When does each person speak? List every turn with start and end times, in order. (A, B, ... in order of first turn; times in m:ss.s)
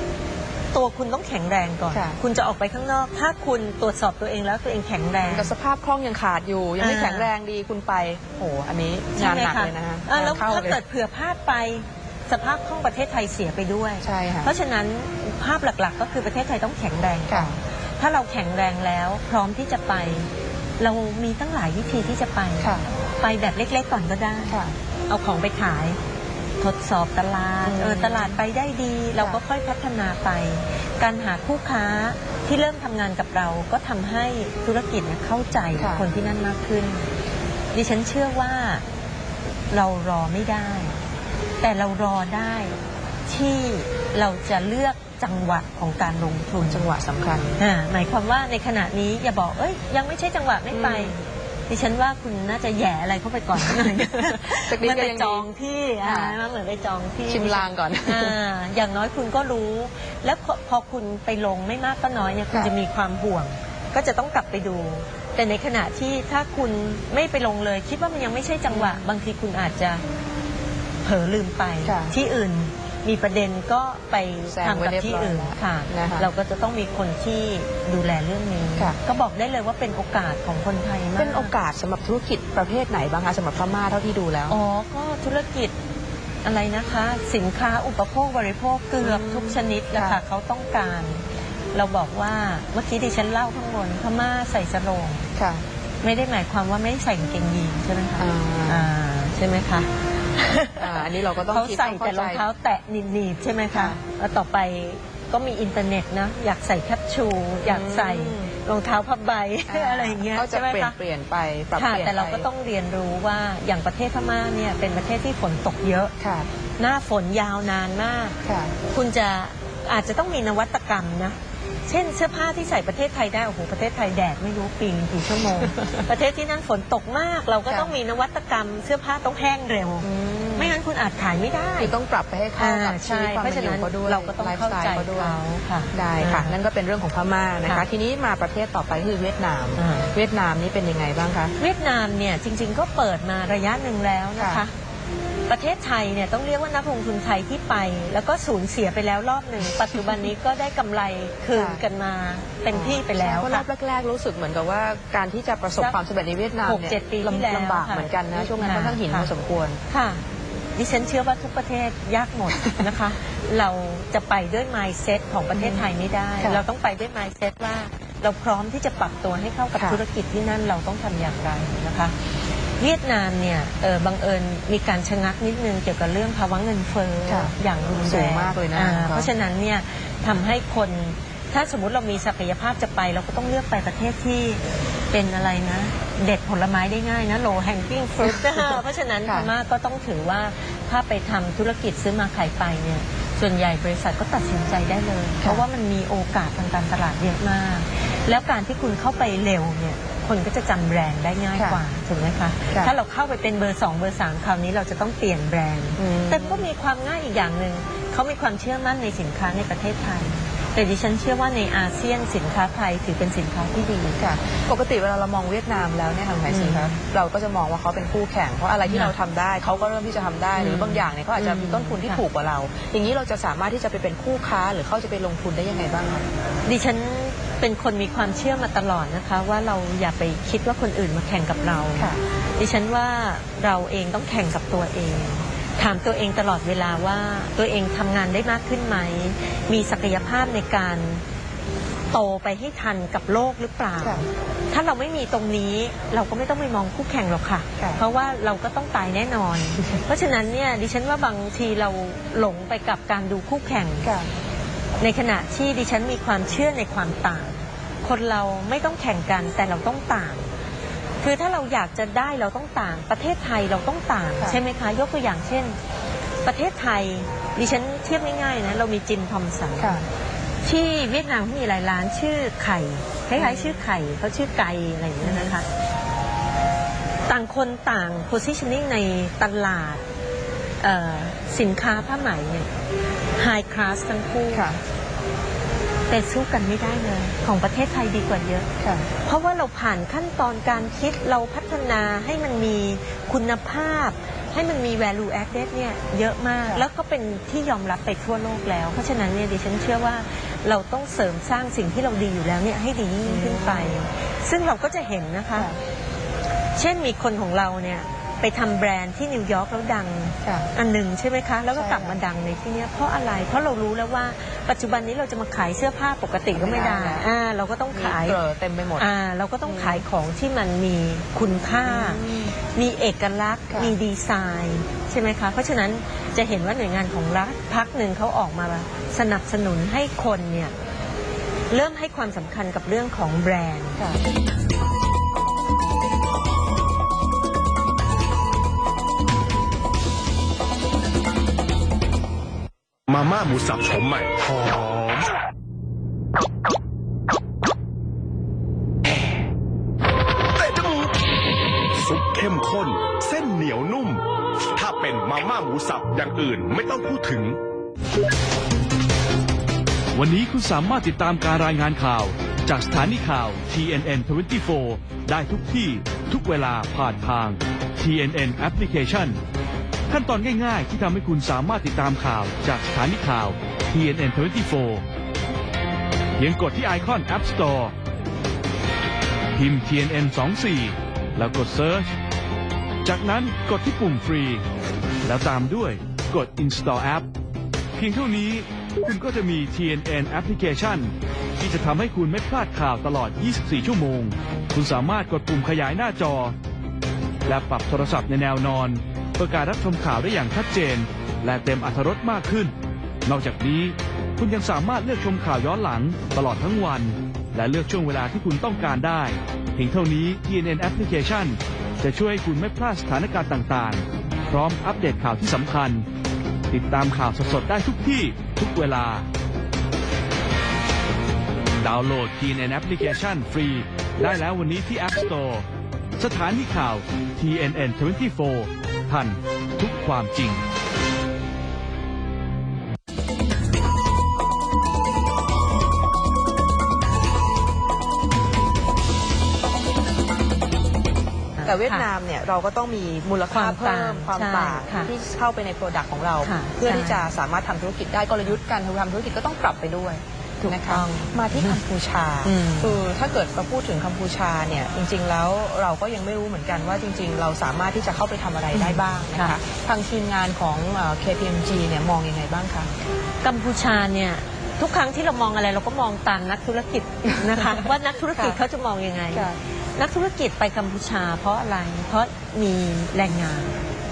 0:00.7-0:05.5 A
0:01.9-0:02.2 B
0:05.3-0:10.8 B
0:06.8-0:07.3 A
0:09.2-0:26.0 A
0:14.0-0:14.5 B
0:17.3-0:17.6 B
0:22.6-0:22.9 B
0:24.5-0:24.8 B
0:26.6-0:37.1 A
0:27.7-0:28.4 B
0:35.8-0:36.0 B
0:37.7-0:38.8 A
0:39.7-0:41.0 A
0:41.6-0:46.9 A
0:46.6-0:47.6 B
0:47.6-1:10.0 A
0:50.7-0:51.2 B
0:53.6-0:55.5 B
0:56.0-0:56.4 B
0:57.3-0:58.4 B
1:08.7-1:09.1 B
1:11.0-1:21.5 A
1:11.8-1:12.1 B
1:14.5-1:16.3 B
1:21.2-1:24.6 B
1:24.5-1:25.7 A
1:26.4-1:35.3 A
1:29.0-1:30.2 B
1:35.4-1:35.6 B
1:36.0-1:51.0 A
1:38.2-1:38.9 B
1:40.8-1:42.4 B
1:43.7-1:44.0 B
1:47.6-1:48.5 B
1:49.7-1:52.5 B
1:51.8-1:56.2 A
1:56.2-1:56.5 B
1:56.8-2:01.4 A
1:58.4-1:58.8 B
2:01.9-2:11.9 A
2:05.6-2:06.0 B
2:07.7-2:08.0 B
2:10.0-2:10.8 B
2:11.8-2:15.4 B
2:12.6-2:16.6 A
2:15.9-2:21.5 B
2:19.8-2:20.1 A
2:21.6-2:24.8 A
2:24.4-2:24.6 B
2:25.5-2:33.7 A
2:31.5-2:31.8 B
2:32.7-2:39.8 B
2:36.6-2:39.3 A
2:39.9-2:40.2 A
2:40.8-2:52.2 A
2:45.5-2:45.9 B
2:52.8-3:34.2 A
2:57.3-2:59.3 B
3:08.2-3:09.5 B
3:21.6-3:21.8 B
3:26.0-3:26.7 B
3:34.2-3:46.3 B
3:36.5-3:37.0 A
3:38.9-3:39.1 A
3:40.6-3:42.2 A
3:46.6-4:01.2 A
4:02.1-4:14.1 A
4:14.0-4:14.3 B
4:15.0-4:20.5 A
4:21.2-4:25.8 A
4:26.4-4:30.0 A
4:29.8-4:30.0 B
4:30.6-4:35.7 A
4:33.4-4:33.8 B
4:35.2-4:35.5 B
4:37.3-4:40.0 A
4:40.8-4:42.7 A
4:43.4-4:44.7 A
4:44.5-4:44.8 B
4:46.1-4:48.7 A
4:48.8-4:49.1 B
4:49.2-5:05.7 A
5:03.2-5:04.0 B
5:06.8-5:18.4 A
5:10.4-5:10.7 B
5:11.7-5:12.2 B
5:16.5-5:17.3 B
5:17.9-5:19.1 B
5:19.0-5:30.7 A
5:19.6-5:20.0 B
5:21.8-5:22.6 B
5:23.7-5:24.0 B
5:31.7-5:34.0 A
5:43.1-5:45.3 C
5:50.6-5:51.2 C
5:51.9-5:54.2 C
5:54.7-5:57.6 C
6:00.1-6:09.4 D
6:10.1-6:15.0 D
6:16.4-6:17.9 D
6:19.6-6:22.1 D
6:23.0-6:24.6 D
6:25.2-6:27.3 D
6:28.0-6:36.5 D
6:37.5-6:42.7 D
6:43.2-6:56.0 D
6:56.7-6:59.3 D
7:01.8-7:05.6 D
7:06.2-7:10.6 D
7:21.6-7:22.1 A
7:21.6-7:42.9 B
7:23.5-7:25.1 A
7:26.4-7:27.3 A
7:30.6-7:31.8 A
7:32.4-7:33.0 A
7:38.7-7:39.6 A
7:43.4-7:53.8 A
7:48.4-7:48.6 B
7:49.3-7:49.6 B